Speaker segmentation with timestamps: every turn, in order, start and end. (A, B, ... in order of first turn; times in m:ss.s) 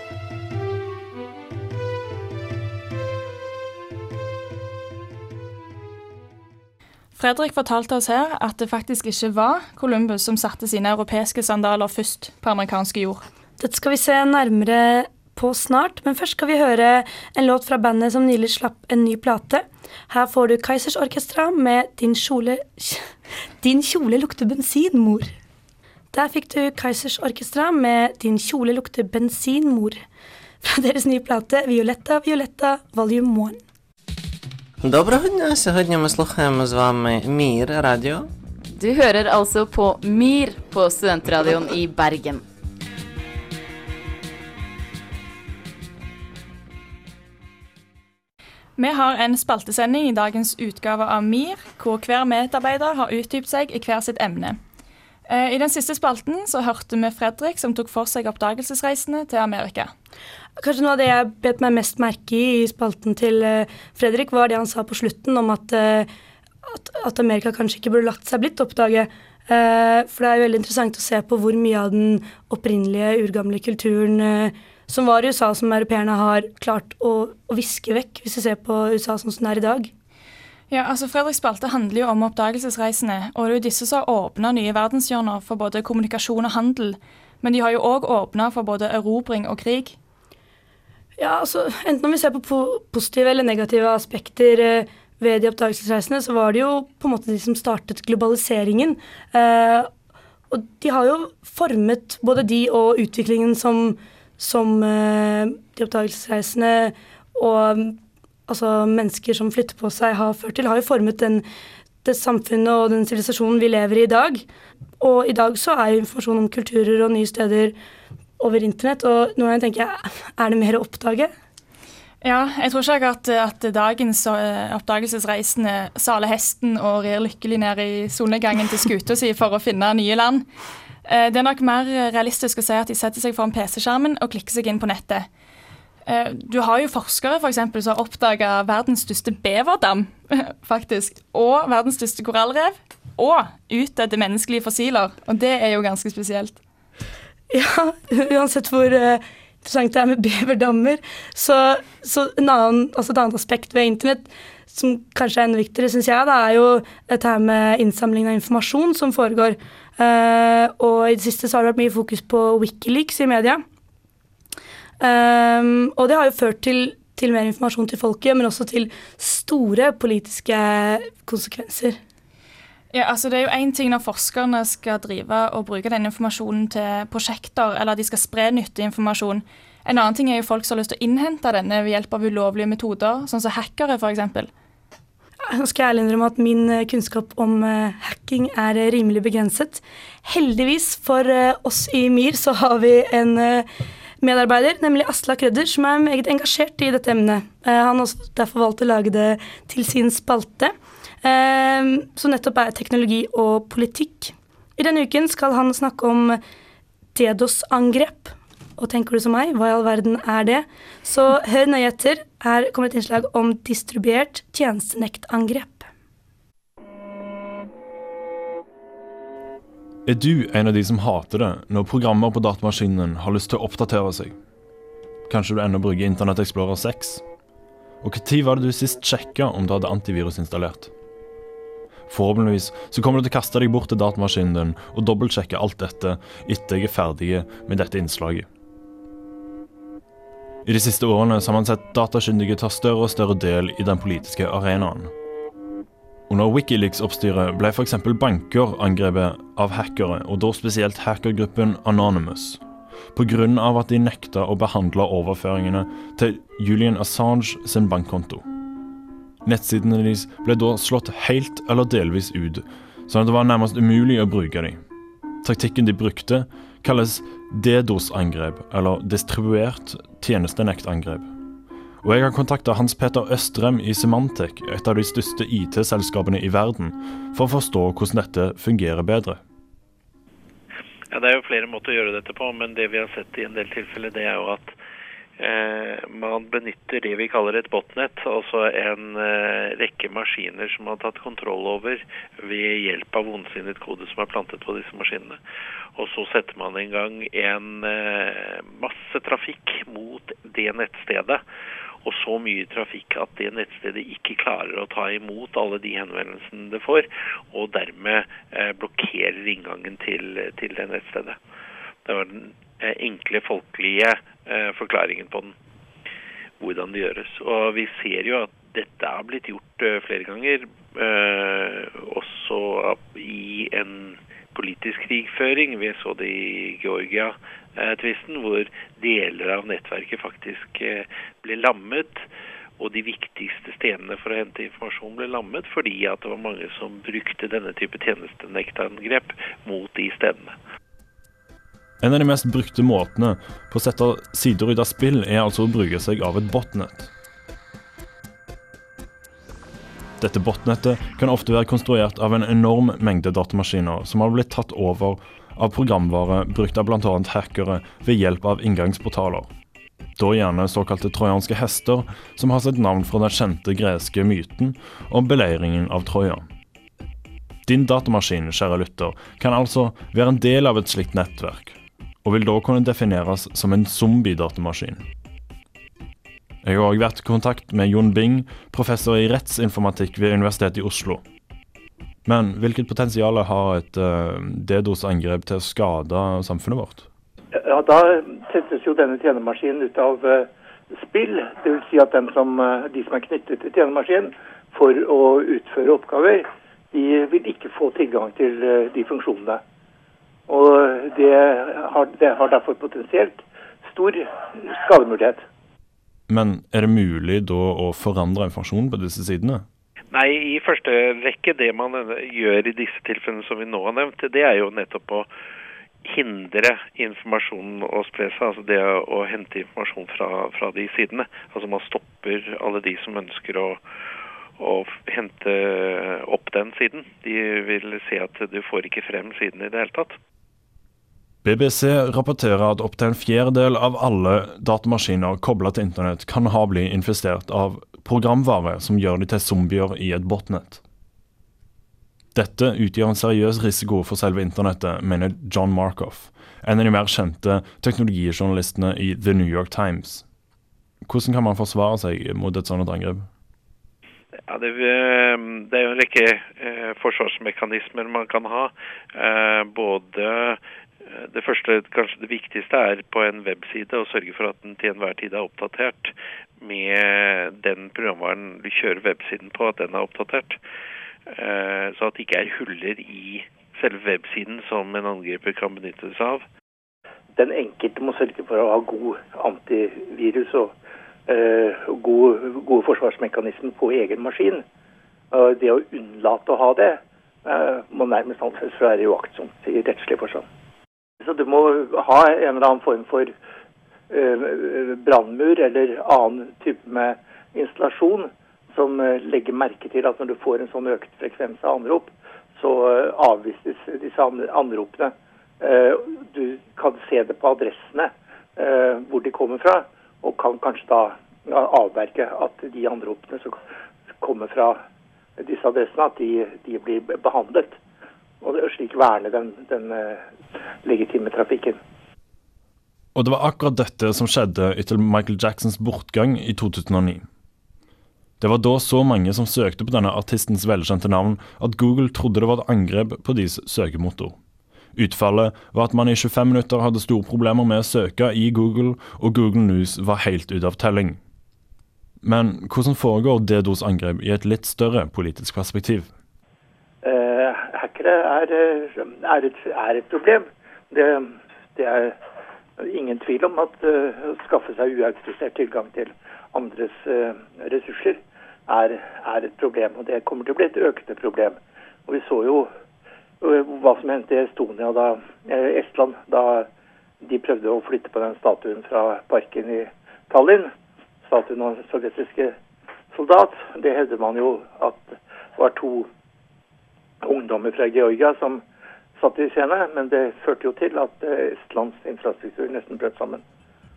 0:07.2-0:13.2 A
0:13.6-0:23.1 B
0:23.6-0:25.3 B
0:26.1-0:30.0 B
0:30.6-0:33.6 B
0:34.8-0:38.3 C
0:38.7-0:42.4 D
0:48.8-0:54.6 A
0:55.3-0:59.9 A
1:00.6-1:06.1 B
1:06.6-1:19.9 B
1:20.7-1:30.0 A
1:31.2-1:39.9 B
1:40.5-1:51.4 B
1:52.0-1:54.4 B
1:55.0-1:57.7 B
1:58.4-2:01.3 B
2:02.2-2:10.5 A
2:11.0-2:15.3 A
2:16.0-2:26.6 A
2:27.5-2:43.6 B
2:45.0-2:52.0 B
2:52.9-3:04.5 A
3:05.5-3:13.7 B
3:14.2-3:26.4 B
3:27.1-3:35.9 B
3:40.0-3:44.3 E
3:45.3-3:47.2 E
3:48.0-3:50.9 E
3:52.1-3:58.5 E
4:00.6-4:05.1 E
4:06.3-4:12.6 E
4:13.1-4:18.4 E
4:19.4-4:24.8 E
4:25.4-4:31.3 E
4:32.0-4:39.4 E
4:41.1-4:44.8 F
4:45.4-4:55.4 F
4:56.0-5:01.4 F
5:02.0-5:11.4 F
5:12.0-5:15.5 F
5:16.6-5:32.3 F
5:32.8-5:40.6 F
5:42.0-5:47.1 E
5:50.2-5:59.5 E
6:00.2-6:06.4 E
6:07.6-6:15.0 E
6:16.6-6:21.2 E
6:22.2-6:27.0 E
6:27.5-6:39.6 G
6:40.5-6:45.4 G
6:46.3-6:49.6 E
6:50.1-6:55.3 F
6:56.0-7:03.8 F
7:04.6-7:10.2 F
7:11.4-7:20.8 E
7:22.3-7:30.2 E
7:31.0-7:33.3 E
7:34.5-7:50.6 F
7:51.3-7:56.4 F
7:57.3-8:00.7 G
8:01.3-8:04.6 G
8:05.3-8:10.4 G
8:11.2-8:13.3 G
8:14.1-8:33.6 G
8:34.2-8:34.8 G
8:35.4-8:37.8 G
8:38.4-8:40.2 G
8:40.8-8:41.8 G
8:43.1-8:47.2 E
8:48.4-8:54.4 E
8:55.0-9:01.2 E
9:02.2-9:06.1 E
9:07.0-9:12.2 G
9:12.8-9:22.7 G
9:23.4-9:26.7 G
9:27.2-9:30.7 G
9:31.2-9:32.5 G
9:33.1-9:36.1 G
9:37.2-9:38.6 G
9:39.2-9:43.4 G